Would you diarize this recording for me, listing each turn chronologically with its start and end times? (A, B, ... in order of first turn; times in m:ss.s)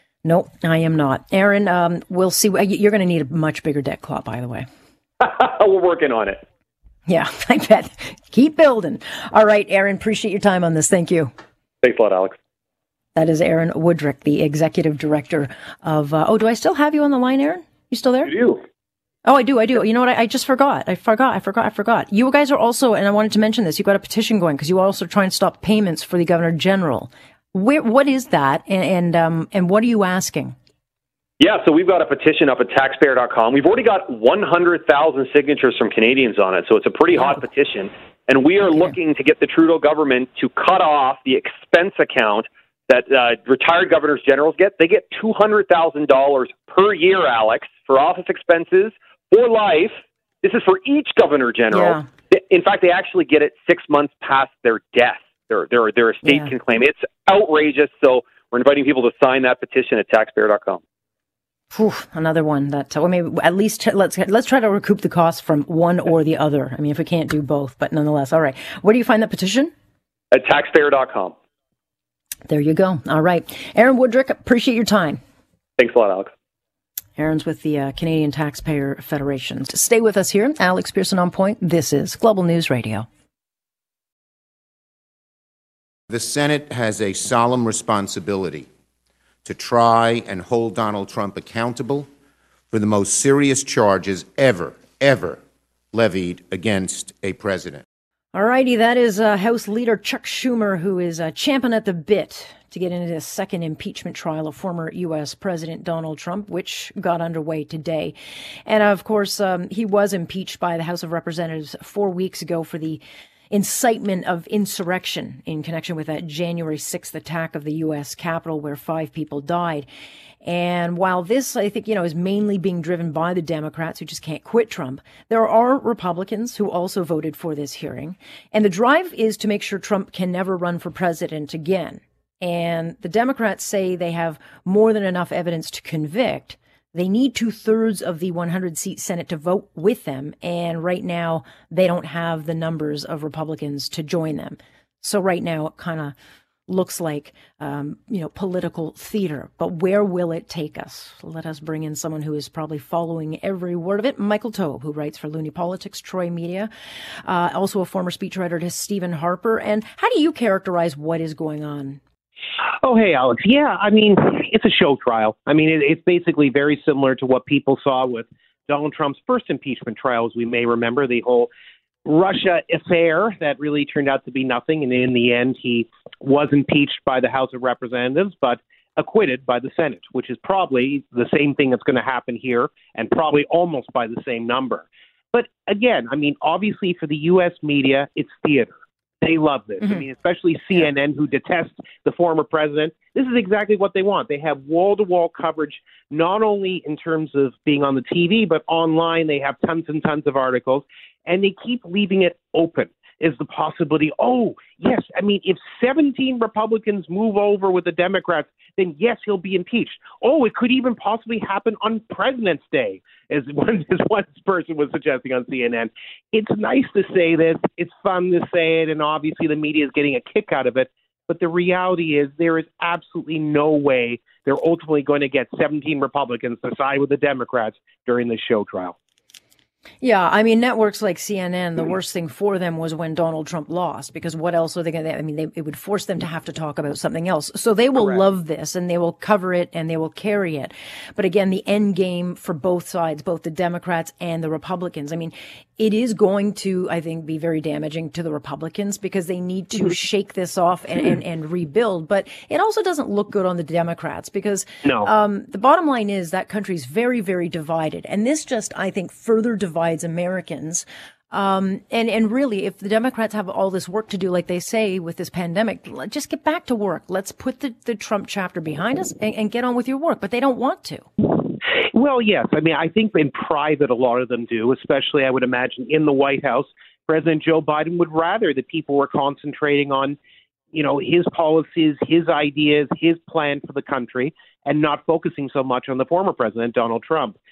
0:00.2-0:04.7 A
0:05.2-0:06.4 B
0:07.1-0:11.3 A
0:11.8-0:12.4 B
0:13.2-0:18.3 A
0:18.2-0:18.6 B
0:19.3-0:30.6 A
0:31.4-1:00.8 B
0:51.7-0:52.0 A
0:56.2-0:56.5 A
1:01.7-1:09.7 A
1:10.3-1:11.4 B
1:12.5-1:15.2 A
1:15.8-1:16.3 B
1:17.2-1:23.1 A
1:26.1-1:28.7 C
1:29.4-1:32.1 C
1:32.7-1:35.4 C
1:35.9-1:37.8 C
1:38.3-1:59.9 A
2:00.4-2:26.2 A
2:26.7-2:36.7 A
2:37.2-2:42.0 A
2:42.8-2:51.5 D
2:52.0-3:49.0 D
3:50.0-4:31.1 A
4:14.8-4:15.1 D
4:31.9-4:40.2 D
4:40.7-4:47.4 D